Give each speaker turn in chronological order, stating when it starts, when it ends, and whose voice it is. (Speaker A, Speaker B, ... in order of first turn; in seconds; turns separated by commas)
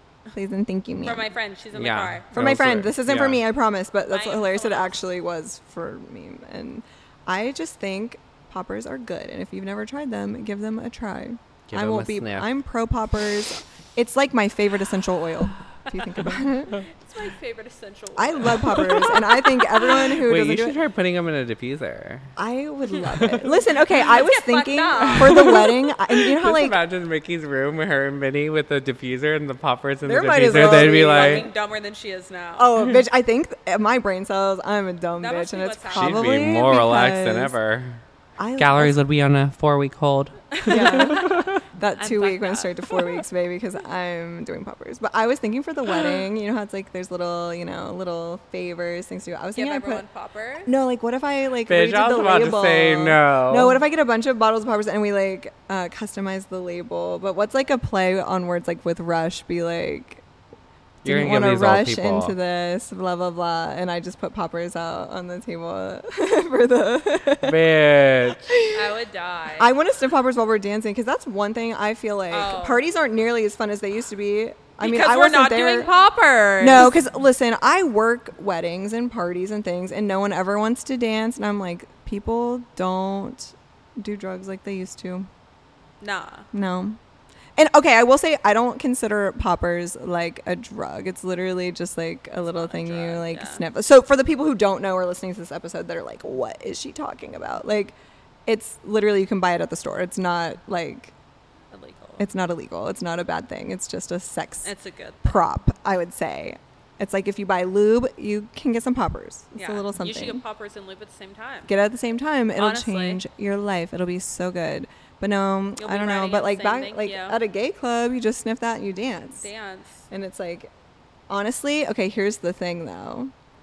Speaker A: 0.3-1.3, Speaker B: 1.0-2.3, Speaker C: 1.7-3.4, Speaker A: 2.3-16.8, Speaker B: 4.1-5.0, Speaker C: 11.7-12.5, Speaker B: 16.7-20.1, Speaker A: 18.2-20.8, Speaker C: 20.2-22.3, Speaker A: 22.4-26.8, Speaker C: 23.0-23.7, Speaker B: 23.9-25.7, Speaker C: 25.1-31.5, Speaker A: 30.0-31.5, Speaker B: 30.5-32.7, Speaker A: 32.6-37.5, Speaker B: 35.2-36.4, Speaker C: 35.9-38.0, Speaker A: 38.4-39.0, Speaker C: 38.6-41.6, Speaker B: 40.5-41.4, Speaker A: 40.7-50.0, Speaker B: 42.0-43.1, Speaker B: 49.5-50.7, Speaker A: 50.6-60.2, Speaker C: 51.7-53.8, Speaker C: 61.0-62.3, Speaker A: 61.0-67.7, Speaker C: 67.4-68.5, Speaker A: 68.3-69.0, Speaker B: 68.7-69.7, Speaker A: 69.6-75.9, Speaker B: 72.3-72.8, Speaker B: 74.8-77.0, Speaker A: 76.6-85.3, Speaker B: 86.0-86.5, Speaker A: 86.5-87.0, Speaker A: 87.5-97.9, Speaker B: 92.5-93.6, Speaker A: 98.5-101.1, Speaker B: 101.7-102.2, Speaker A: 102.2-104.7, Speaker B: 104.6-105.4, Speaker A: 105.2-110.4, Speaker B: 109.5-111.7, Speaker A: 111.7-119.5, Speaker B: 112.6-113.2, Speaker B: 115.8-117.4, Speaker B: 119.4-120.1, Speaker A: 120.1-120.7, Speaker A: 121.3-123.3